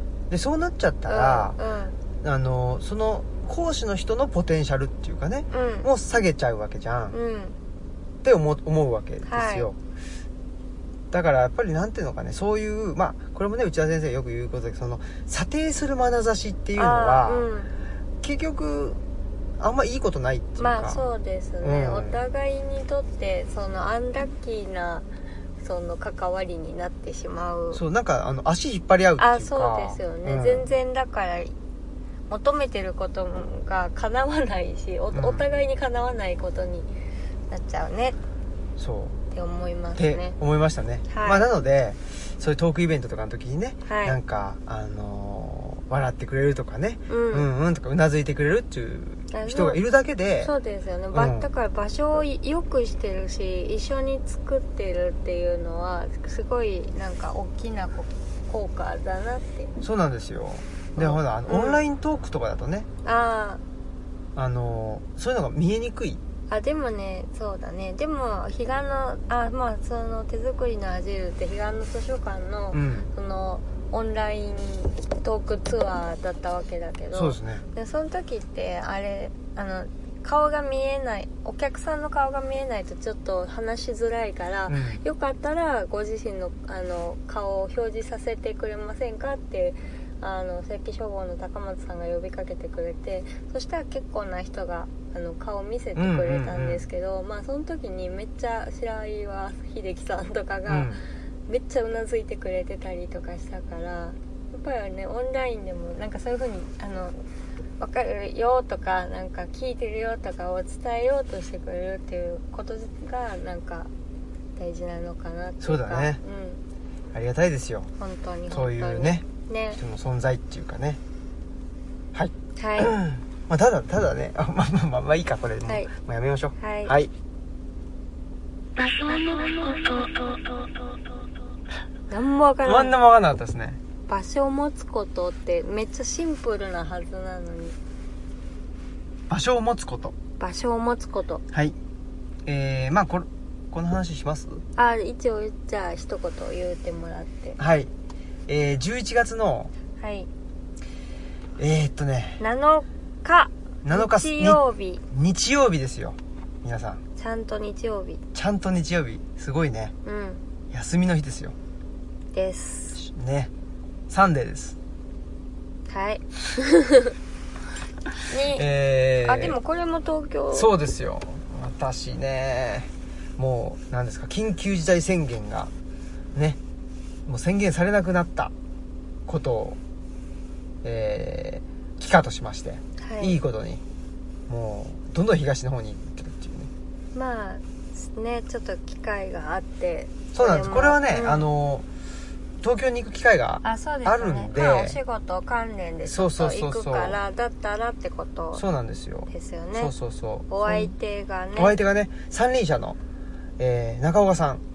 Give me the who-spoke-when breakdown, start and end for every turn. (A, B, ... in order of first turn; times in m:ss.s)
0:00.3-0:01.6 A
0:01.1-0:02.0 B
0:02.2-0:07.2 A
0:05.5-0:05.9 B
0:07.1-0:07.6 B
0:08.2-0:09.8 A
0:09.2-0:09.7 B
0:11.1-0:17.5 A
0:16.8-0:17.7 B
0:18.2-0:19.0 A
0:19.6-0:21.0 A
0:20.6-0:25.1 B
0:21.6-0:22.2 A
0:25.6-0:27.8 B
0:27.7-0:30.7 A
0:29.2-0:31.5 B
0:32.3-0:36.9 B
0:35.1-0:35.4 A
0:37.5-0:38.2 B
0:38.8-0:39.2 A
0:39.3-0:40.4 B
0:40.0-0:50.5 A
0:41.1-0:41.5 B
0:43.8-0:44.2 B
0:47.1-0:47.5 B
0:49.3-0:49.8 B
0:50.4-0:59.7 B
0:51.1-0:51.5 A
0:59.8-1:02.9 A
1:01.0-1:01.8 B
1:03.0-1:03.6 B
1:04.3-1:06.2 A
1:06.5-1:47.2 B
1:12.7-1:13.1 A
1:17.1-1:17.6 A
1:24.7-1:25.0 A
1:36.0-1:36.8 A
1:40.7-1:41.0 A
1:47.8-1:53.9 B
1:54.6-1:56.6 B
1:55.6-1:56.2 A
1:57.1-1:57.9 A
1:58.0-1:59.8 B
1:58.5-2:01.0 A
2:02.1-2:07.1 A
2:02.6-2:02.9 B
2:05.6-2:05.9 B
2:06.6-2:06.9 B
2:08.8-2:10.8 C
2:12.1-2:13.0 B
2:12.6-2:13.8 A
2:14.1-2:17.8 B
2:19.3-2:20.1 A
2:20.4-2:21.4 B
2:21.5-2:21.8 A
2:22.4-2:24.6 A
2:24.8-2:27.6 B
2:27.6-2:27.9 A
2:28.5-2:29.7 A
2:30.0-2:30.3 B
2:31.6-2:32.4 A
2:32.4-2:35.0 B
2:33.8-2:34.6 A
2:35.1-2:37.0 A
2:37.2-2:38.2 B
2:38.3-2:39.9 A
2:40.0-2:40.4 B
2:40.7-2:41.5 A
2:42.3-2:43.0 B
2:42.9-2:43.5 A
2:44.1-2:44.8 A
2:45.9-2:47.1 B
2:48.3-2:48.6 B
2:48.5-2:49.6 A
2:49.2-2:50.7 B
2:50.5-2:55.7 A
2:57.2-2:58.5 A
2:59.2-2:59.8 A
3:00.8-3:03.8 A
3:03.0-3:03.4 B
3:04.5-3:06.7 A
3:07.1-3:11.5 B
3:10.3-3:11.8 A
3:12.6-3:15.0 A
3:13.6-3:18.6 B
3:16.0-3:17.2 A
3:18.5-3:20.9 A
3:19.3-3:19.9 B
3:20.5-3:21.8 B
3:21.5-3:23.0 A
3:23.6-3:24.6 A